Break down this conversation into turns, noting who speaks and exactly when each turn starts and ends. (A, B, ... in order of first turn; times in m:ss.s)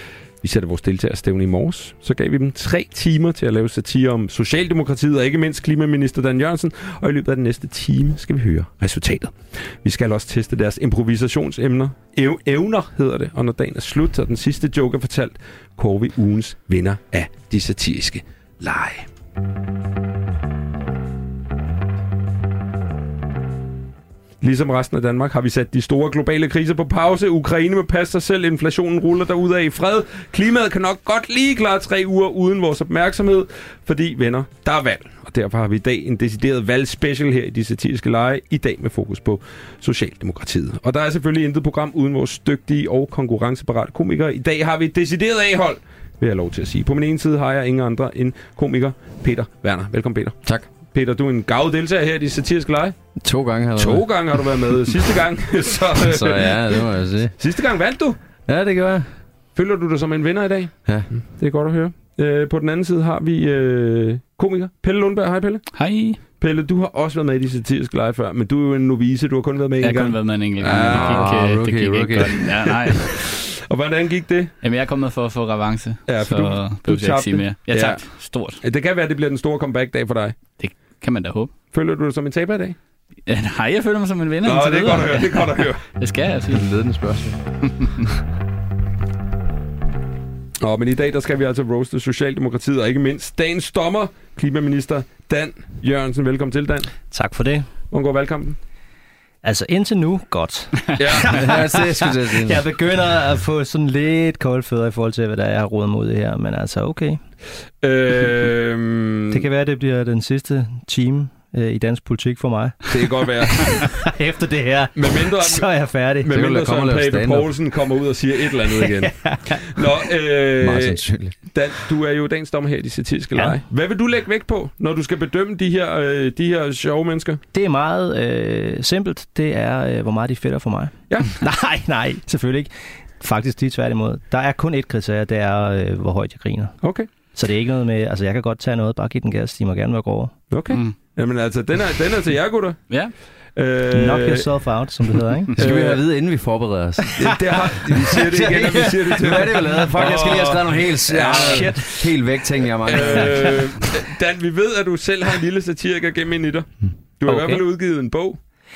0:00.4-0:19.1 A
0:24.4-0:53.0 A
0:53.2-0:54.8 B
0:53.8-0:56.9 A
0:56.0-0:57.4 B
0:57.4-0:58.2 A
0:58.5-0:59.1 B
0:59.5-1:11.3 A
1:05.8-1:06.2 C
1:09.8-1:13.3 C
1:10.7-1:12.6 B
1:13.0-1:14.5 A
1:14.6-1:18.6 C
1:16.1-1:20.4 A
1:20.6-1:21.5 C
1:21.7-1:22.8 A
1:23.3-1:26.7 C
1:24.4-1:25.8 A
1:26.5-1:27.5 B
1:27.6-1:28.1 C
1:30.6-1:37.0 A
1:37.1-1:37.7 D
1:37.9-1:38.6 A
1:39.4-1:41.8 D
1:41.0-1:41.4 A
1:41.3-1:42.6 B
1:42.3-1:47.2 D
1:47.8-1:49.5 A
1:49.3-1:56.3 D
1:52.9-1:54.0 A
1:55.0-2:07.4 A
1:56.3-1:57.5 B
1:58.7-1:59.8 D
2:00.6-2:01.4 B
2:03.4-2:03.6 D
2:07.5-2:16.8 D
2:11.1-2:11.4 A
2:16.8-2:17.1 A
2:17.3-2:20.4 D
2:20.5-2:22.8 A
2:23.6-2:24.5 A
2:23.9-2:25.5 D
2:25.6-2:26.0 A
2:25.6-2:27.4 B
2:27.2-2:32.1 A
2:27.9-2:33.6 B
2:29.8-2:30.5 D
2:31.2-2:31.9 D
2:32.8-2:38.4 A
2:37.2-2:37.6 D